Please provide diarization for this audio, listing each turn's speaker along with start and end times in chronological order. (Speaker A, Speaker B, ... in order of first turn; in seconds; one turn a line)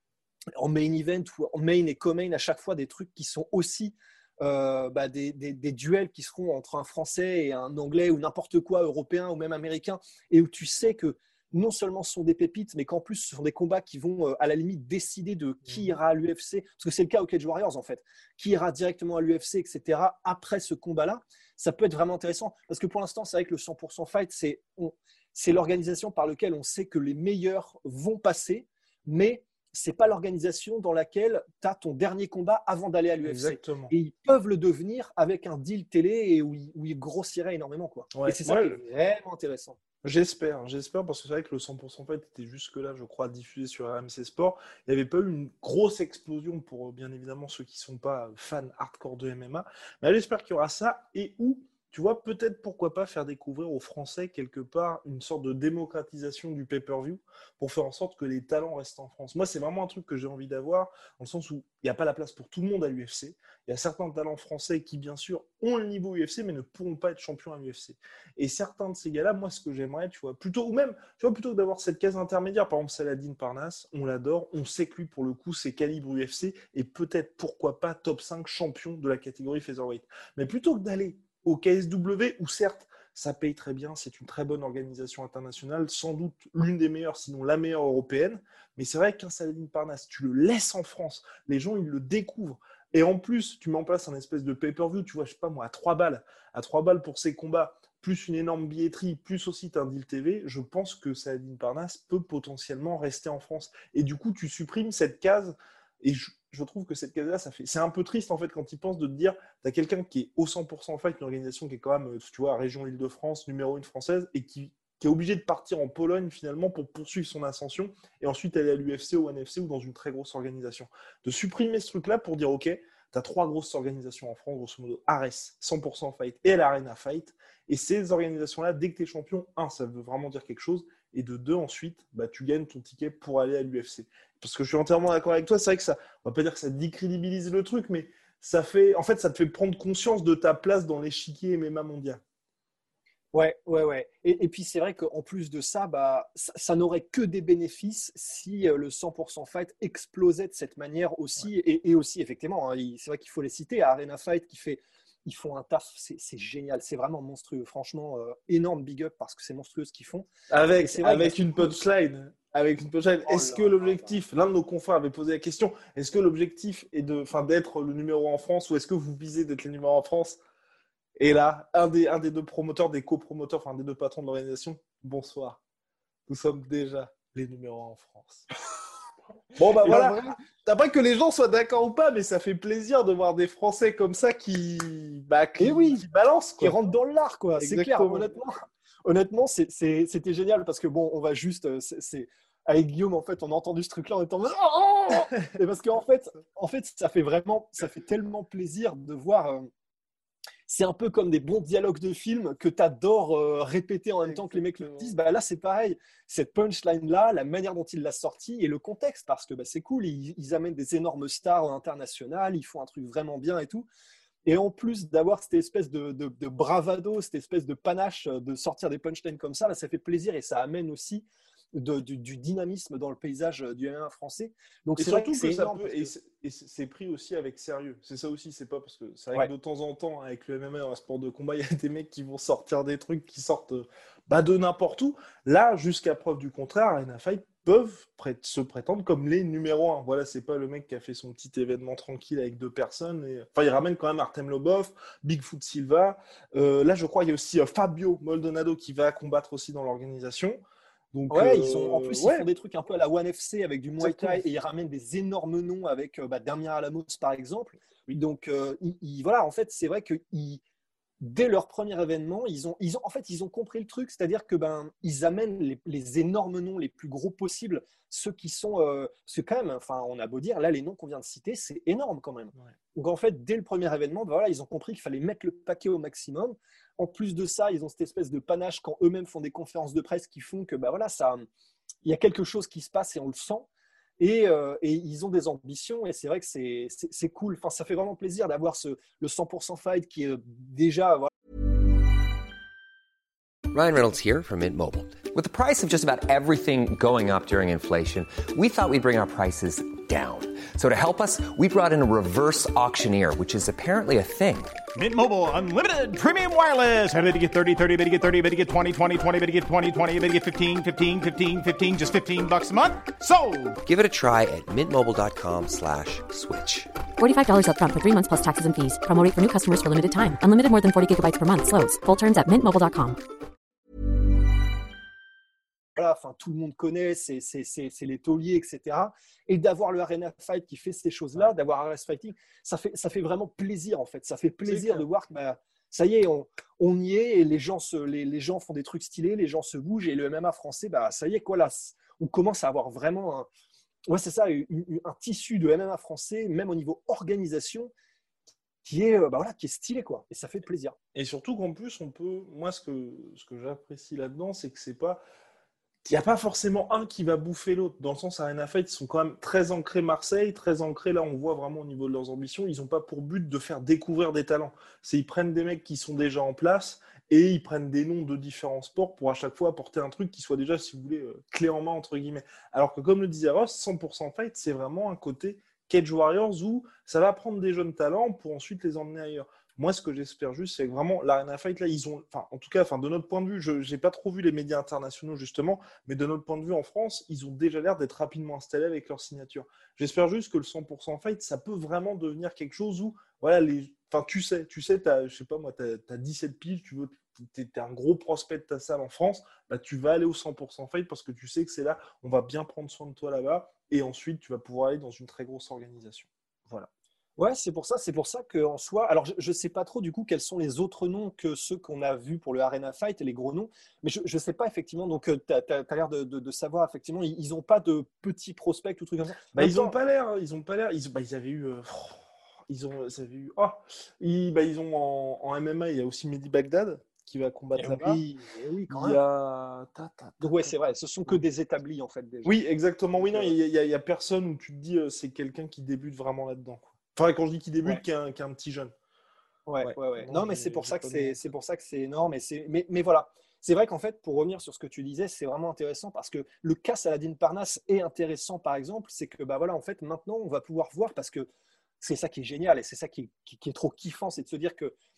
Speaker A: 0.6-39.8
Speaker B: 33.2-33.9
Speaker B: 38.1-38.8
Speaker B: 40.0-142.2
Speaker A: 143.3-160.3
Speaker B: 160.5-170.4
Speaker A: 160.8-161.7
Speaker A: 163.2-164.2
Speaker B: 171.2-175.6
Speaker B: 176.3-178.5
Speaker B: 179.6-186.8
Speaker A: 179.7-180.4
Speaker A: 185.6-186.0
Speaker A: 186.6-199.7
Speaker B: 187.6-188.3
Speaker A: 200.7-213.9
Speaker B: 204.3-205.1
Speaker A: 214.5-226.1
Speaker B: 225.0-250.6
Speaker B: 251.1-252.5
Speaker A: 251.3-260.6
Speaker B: 254.0-254.4
Speaker A: 261.2-281.5
Speaker A: 282.0-283.7
Speaker A: 284.2-291.3
Speaker C: 293.7-304.8
Speaker D: 304.9-313.8
Speaker C: 313.9-316.9
Speaker E: 317.2-323.2
Speaker A: 326.0-343.5
Speaker B: 334.7-335.1
Speaker A: 344.1-347.9
Speaker A: 348.8-351.0
Speaker B: 351.1-355.2
Speaker B: 356.0-406.9
Speaker A: 407.4-419.9
Speaker B: 419.5-428.2
Speaker A: 427.8-429.2
Speaker B: 428.9-430.7
Speaker A: 430.4-432.5
Speaker B: 432.4-438.9
Speaker A: 433.2-433.6
Speaker A: 439.7-451.5
Speaker B: 439.8-441.5
Speaker A: 452.0-454.9